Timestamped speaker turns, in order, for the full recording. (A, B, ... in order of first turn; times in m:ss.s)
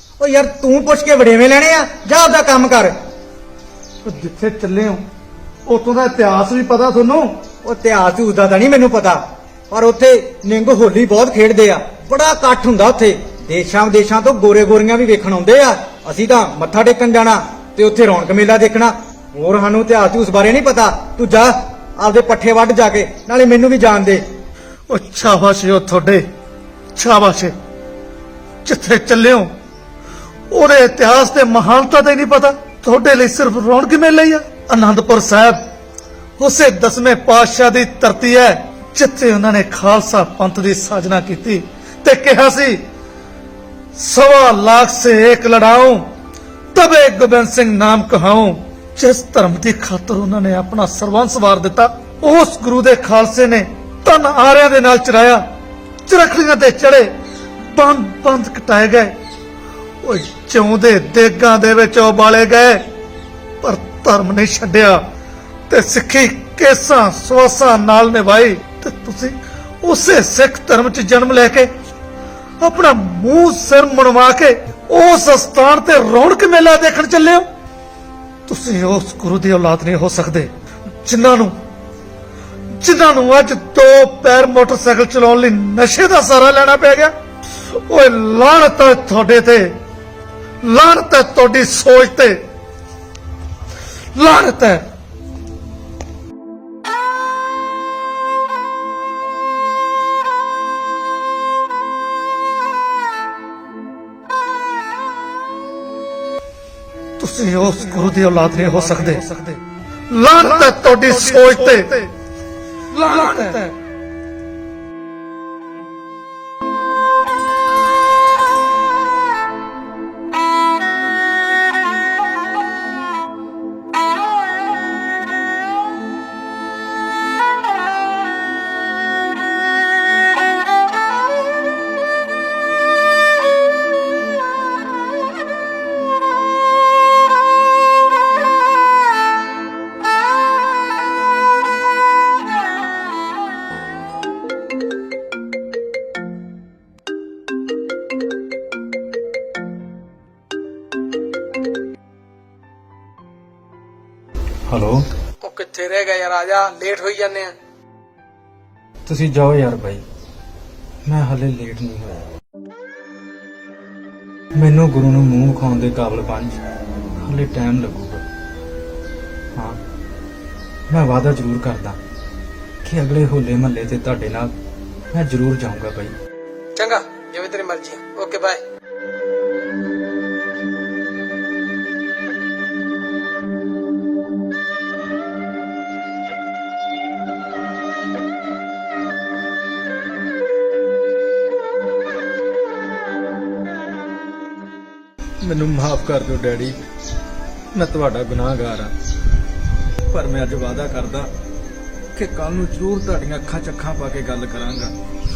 0:00.2-0:02.9 A
0:04.0-0:05.0 B
0:05.7-0:07.3 B
0:07.6-0:24.2 A
0:24.9-0:26.2 B
0:27.0-0:27.5 B
0:28.6-0:29.5 B
0:30.5-0:35.6 B
0:36.4-0:42.8 B
0:44.0-0:46.0 B
0:46.7-0:55.4 B
0:56.1-0:57.1 B
0:57.6-0:59.1 B
1:00.0-1:02.8 B
1:03.6-1:05.0 B
1:05.7-1:11.7 B
1:12.6-1:17.5 B
1:18.5-1:20.5 B
1:21.0-1:21.5 B
1:22.8-1:27.1 B
1:27.7-1:29.7 B
1:30.6-1:32.4 B
1:34.2-1:34.8 B
1:47.2-1:49.6 B
1:50.1-1:52.1 B
1:52.9-1:53.7 B
2:34.7-2:35.0 A
2:35.4-2:37.5 C
2:39.0-2:40.0 A
2:41.1-2:42.3 A
2:44.6-2:46.6 A
2:47.2-2:48.2 A
2:50.9-2:52.0 A
2:52.8-2:54.5 A
2:55.1-2:56.2 A
2:56.8-2:58.6 C
3:15.4-3:16.8 A
3:17.7-3:18.9 A
3:20.1-3:21.3 A
3:22.1-3:24.9 A